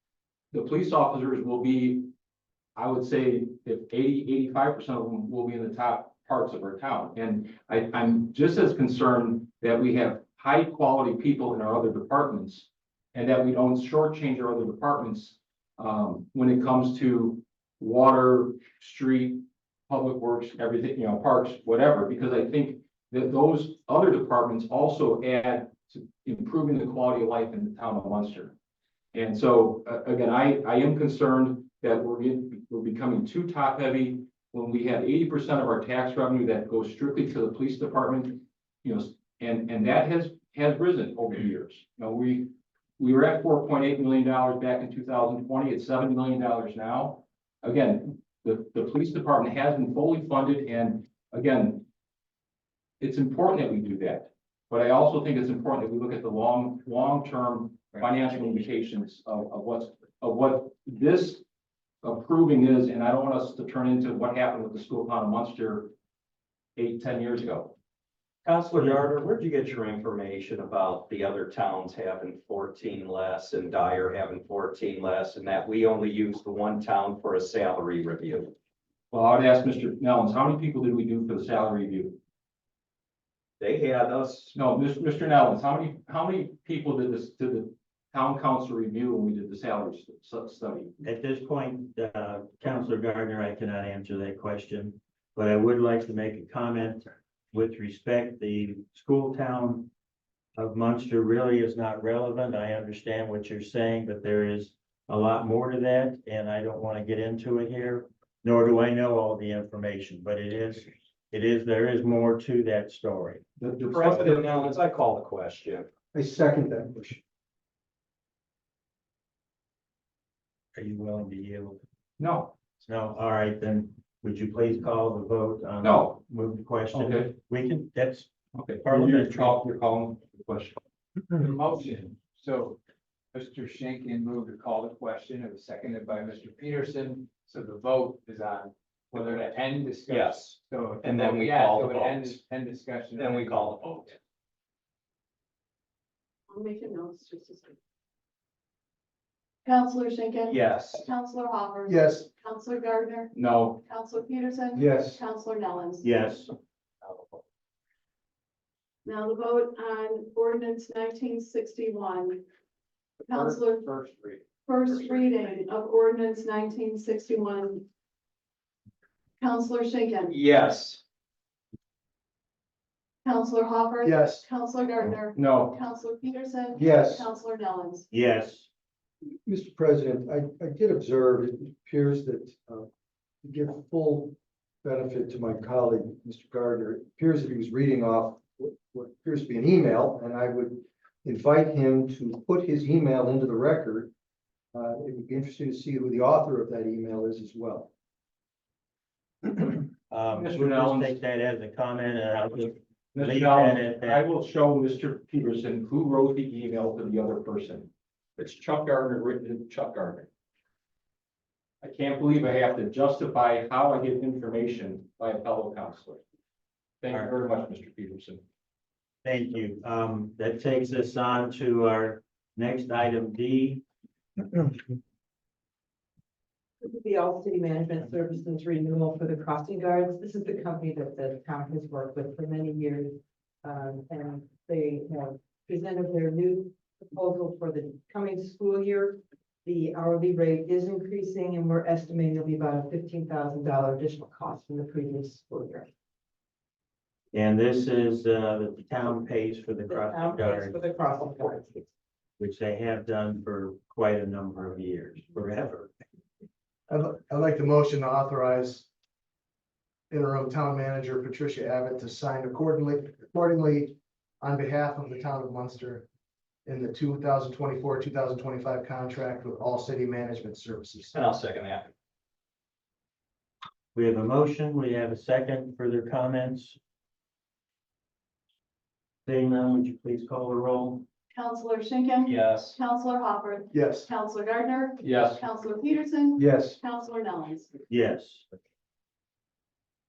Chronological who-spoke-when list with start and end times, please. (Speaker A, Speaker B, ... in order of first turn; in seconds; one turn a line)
Speaker A: 0.5-2.1
Speaker A: 2.8-28.5
Speaker A: 29.1-51.9
Speaker A: 53.0-61.4
Speaker A: 62.0-65.9
Speaker A: 66.8-67.8
Speaker B: 68.4-78.5
Speaker A: 79.1-82.2
Speaker B: 83.6-84.5
Speaker A: 84.5-90.9
Speaker C: 91.0-99.9
Speaker C: 100.6-113.5
Speaker A: 113.6-114.2
Speaker B: 113.9-115.9
Speaker D: 116.1-117.2
Speaker C: 120.7-121.8
Speaker A: 122.2-122.5
Speaker C: 122.8-129.6
Speaker A: 125.8-126.2
Speaker A: 126.9-127.3
Speaker A: 128.5-130.8
Speaker E: 131.4-132.8
Speaker E: 133.3-144.2
Speaker B: 139.1-142.4
Speaker B: 143.1-144.1
Speaker F: 146.5-147.7
Speaker F: 149.6-156.1
Speaker B: 150.5-151.1
Speaker G: 151.9-152.2
Speaker A: 153.3-153.8
Speaker D: 154.7-155.2
Speaker C: 156.0-156.5
Speaker B: 157.0-157.4
Speaker F: 159.0-162.4
Speaker F: 163.3-163.9
Speaker B: 163.3-164.3
Speaker F: 164.7-167.8
Speaker F: 169.4-170.4
Speaker B: 170.3-171.0
Speaker F: 173.2-178.1
Speaker G: 174.0-174.4
Speaker A: 175.3-175.7
Speaker D: 176.8-177.3
Speaker C: 178.1-178.7
Speaker D: 179.4-182.9
Speaker D: 183.4-194.1
Speaker D: 194.7-197.9
Speaker C: 200.1-204.2
Speaker A: 200.3-201.2
Speaker A: 203.1-210.3
Speaker A: 211.8-216.2
Speaker A: 217.0-218.4
Speaker C: 219.2-223.8
Speaker H: 226.8-245.9
Speaker C: 247.3-250.8
Speaker H: 249.9-251.8
Speaker C: 252.4-255.9
Speaker G: 256.9-258.9
Speaker G: 260.1-266.1
Speaker G: 266.6-271.2
Speaker B: 271.1-271.9
Speaker C: 273.9-276.8
Speaker C: 279.2-281.1
Speaker F: 281.3-287.7
Speaker B: 282.2-282.8
Speaker G: 283.7-284.1
Speaker A: 285.0-285.4
Speaker D: 286.4-286.8
Speaker C: 287.9-288.5